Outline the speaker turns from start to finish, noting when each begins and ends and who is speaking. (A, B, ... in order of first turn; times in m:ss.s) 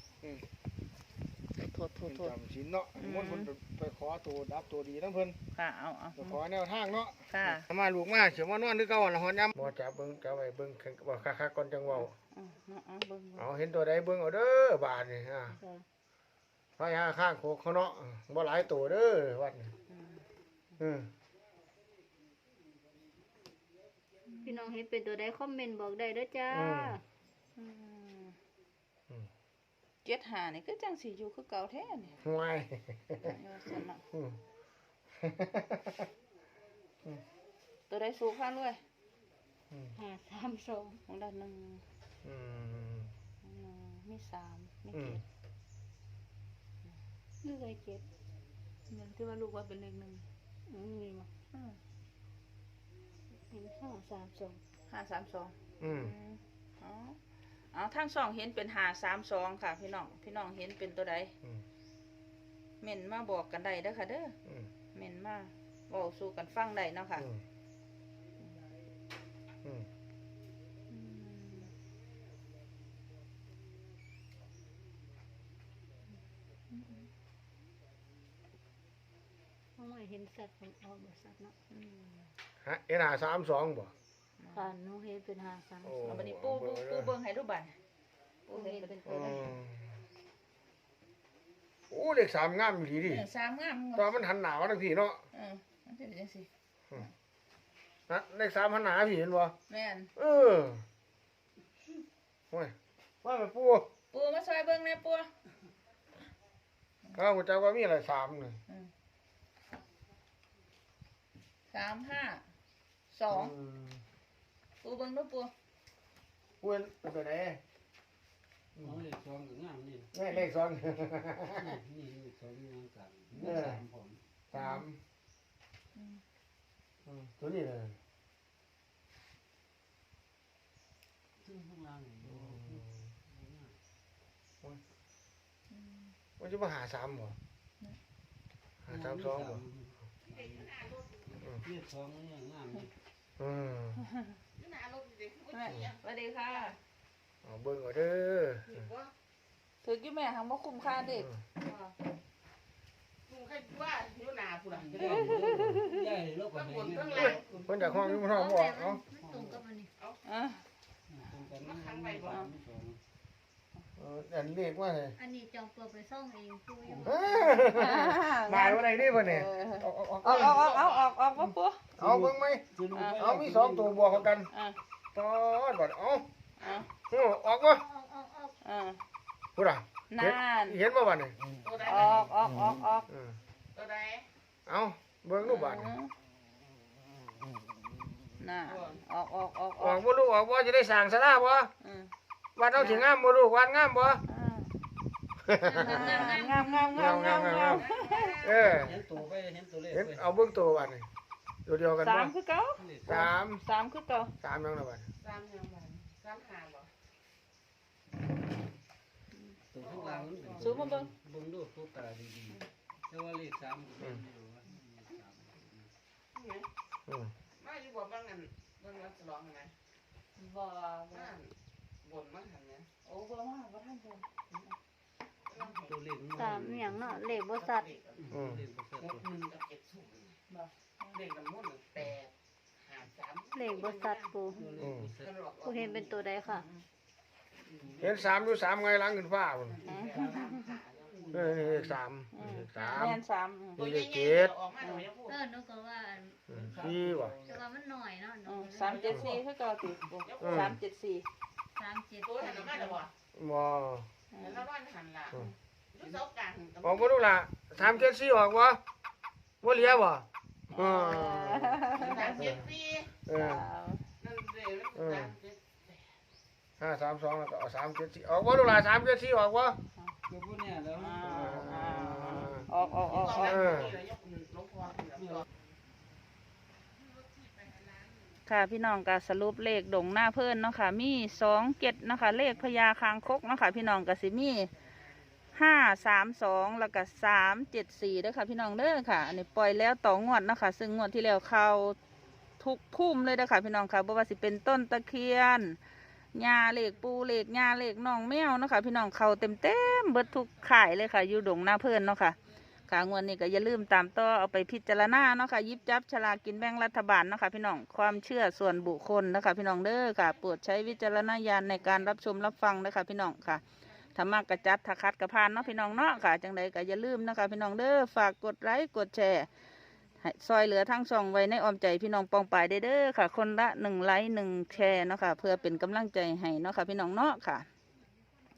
0:01.6-0:02.3 A
0:02.0-0:05.4 B
0:03.0-0:03.5 A
0:05.5-0:06.4 A
0:06.2-0:12.1 B
0:07.3-0:07.6 A
0:11.9-0:13.5 A
0:13.4-0:15.6 B
0:15.5-0:15.8 C
0:16.8-0:19.7 B
0:19.9-0:20.2 A
0:20.8-0:21.1 B
0:24.3-0:24.7 A
0:24.4-0:27.0 C
0:26.5-0:27.0 B
0:27.6-0:28.4 A
0:30.0-0:32.2 A
0:32.2-0:33.3 B
0:33.2-0:34.0 A
0:34.1-0:34.4 B
0:35.2-0:36.1 B
0:37.9-0:38.8 A
0:40.0-0:41.0 C
0:41.1-0:41.8 A
0:42.2-0:43.1 B
0:43.4-0:45.2 A
0:44.9-0:45.2 B
0:47.4-0:48.0 C
0:48.9-0:50.3 A
0:50.7-0:51.3 C
0:51.5-0:51.8 A
0:53.5-0:54.6 C
0:54.9-0:57.2 A
0:55.8-0:56.2 B
0:57.7-1:01.3 A
1:02.8-1:04.4 A
1:04.9-1:07.3 A
1:07.2-1:07.4 B
1:10.9-1:11.7 A
1:16.7-1:17.1 A
1:19.8-1:21.6 C
1:21.7-1:22.3 A
1:22.6-1:23.9 B
1:24.4-1:24.7 A
1:24.5-1:26.0 C
1:25.8-1:27.1 B
1:26.0-1:27.8 A
1:28.5-1:29.0 A
1:28.5-1:29.5 C
1:29.0-1:30.0 B
1:31.9-1:33.3 B
1:33.1-1:34.1 A
1:34.0-1:35.2 B
1:35.3-1:36.5 A
1:38.1-1:39.6 B
1:39.7-1:40.1 A
1:40.2-1:40.8 B
1:42.5-1:43.9 B
1:44.1-1:45.3 A
1:47.1-1:48.6 B
1:51.7-1:52.4 A
1:53.1-1:53.5 A
1:53.3-1:54.0 B
1:54.8-1:55.5 A
1:56.6-1:57.6 B
1:58.8-2:00.1 D
2:00.1-2:01.8 B
2:01.5-2:04.2 D
2:03.3-2:03.8 B
2:04.5-2:05.0 B
2:04.6-2:04.8 A
2:06.0-2:06.2 A
2:07.0-2:08.0 B
2:11.4-2:13.8 D
2:12.2-2:12.9 B
2:15.7-2:16.1 A
2:16.4-2:17.4 B
2:18.8-2:19.6 B
2:18.9-2:20.7 D
2:20.3-2:21.3 E
2:21.4-2:21.7 B
2:21.6-2:22.9 D
2:23.4-2:24.0 B
2:24.6-2:26.0 E
2:25.5-2:26.8 A
2:27.4-2:28.9 B
2:28.7-2:29.1 E
2:29.8-2:31.3 A
2:31.6-2:31.9 E
2:33.3-2:35.6 E
2:34.7-2:37.4 D
2:36.5-2:37.7 E
2:37.2-2:39.0 B
2:37.9-2:39.9 C
2:39.2-2:39.6 D
2:40.2-2:40.6 A
2:41.1-2:43.0 D
2:41.6-2:42.4 E
2:44.0-2:45.2 B
2:45.2-2:47.7 C
2:46.9-2:47.2 D
2:46.9-2:50.7 B
2:47.7-2:51.8 A
2:50.2-2:51.0 E
2:52.0-2:52.6 B
2:52.0-2:54.3 D
2:52.9-2:53.2 A
2:53.2-2:54.5 B
2:54.5-2:54.8 A
2:55.1-2:56.3 B
2:56.6-2:56.9 A
2:57.1-2:57.8 B
2:57.7-2:58.6 C
2:58.6-2:59.0 A
2:59.6-3:01.4 B
3:00.1-3:00.8 A
3:01.6-3:02.3 E
3:01.8-3:03.1 A
3:03.1-3:03.4 B
3:03.8-3:04.3 E
3:04.7-3:06.0 B
3:05.4-3:06.1 A
3:08.4-3:10.0 A
3:08.7-3:09.0 E
3:09.8-3:11.7 B
3:11.8-3:12.1 A
3:12.6-3:14.2 B
3:12.8-3:13.1 A
3:14.3-3:14.8 A
3:15.4-3:16.2 B
3:15.6-3:16.9 C
3:15.8-3:18.3 A
3:16.9-3:17.9 B
3:17.7-3:18.7 E
3:18.4-3:19.1 B
3:18.7-3:20.2 D
3:19.9-3:21.1 B
3:21.7-3:22.3 B
3:22.0-3:24.3 A
3:22.8-3:23.2 D
3:23.1-3:23.6 B
3:24.4-3:25.1 B
3:25.2-3:26.9 E
3:29.7-3:35.9 D
3:29.8-3:30.8 E
3:30.6-3:31.1 A
3:36.3-3:36.7 E
3:37.1-3:37.3 B
3:37.6-3:39.7 E
3:40.4-3:41.3 A
3:41.1-3:42.9 E
3:43.0-3:44.3 A
3:45.5-3:46.0 E
3:45.8-3:47.1 D
3:46.3-3:47.9 C
3:47.3-3:48.3 E
3:48.2-3:49.4 D
3:48.3-3:48.6 B
3:49.0-3:50.4 E
3:50.5-3:51.2 A
3:51.1-3:54.2 E
3:53.6-3:54.7 C
3:54.5-3:55.3 D
3:54.8-3:55.1 B
3:55.2-3:56.6 E
3:55.6-3:56.6 C
3:57.8-3:58.1 D
3:58.0-3:59.8 B
3:59.7-4:01.6 E
3:59.9-4:00.4 D
3:59.9-4:00.7 A
4:01.1-4:02.0 D
4:01.3-4:03.2 B
4:02.3-4:03.8 A
4:02.8-4:03.0 E
4:03.8-4:04.5 B
4:03.8-4:05.4 E
4:05.3-4:09.3 C
4:06.5-4:07.4 B
4:06.5-4:07.6 D
4:08.4-4:11.3 A
4:08.8-4:09.4 E
4:10.2-4:10.7 E
4:10.4-4:10.8 B
4:11.8-4:12.9 C
4:12.2-4:13.1 E
4:13.3-4:14.1 B
4:14.3-4:14.6 A
4:14.4-4:15.4 E
4:15.9-4:17.1 E
4:16.8-4:18.8 B
4:19.6-4:22.7 B
4:20.7-4:22.5 A
4:21.9-4:23.2 E
4:23.3-4:23.7 B
4:23.3-4:24.0 A
4:24.2-4:26.0 E
4:25.0-4:25.4 B
4:26.8-4:29.8 B
4:30.3-4:32.7 D
4:30.9-4:33.9 A
4:31.2-4:32.7 B
4:33.0-4:35.5 E
4:33.4-4:34.0 B
4:35.2-4:35.5 D
4:37.4-4:38.1 E
4:38.5-4:44.7 A
4:45.5-4:52.0 A
4:52.6-4:55.8 A
4:56.3-5:02.4 A
5:02.9-5:13.6 A
5:14.1-5:19.5 A
5:20.2-5:27.7 A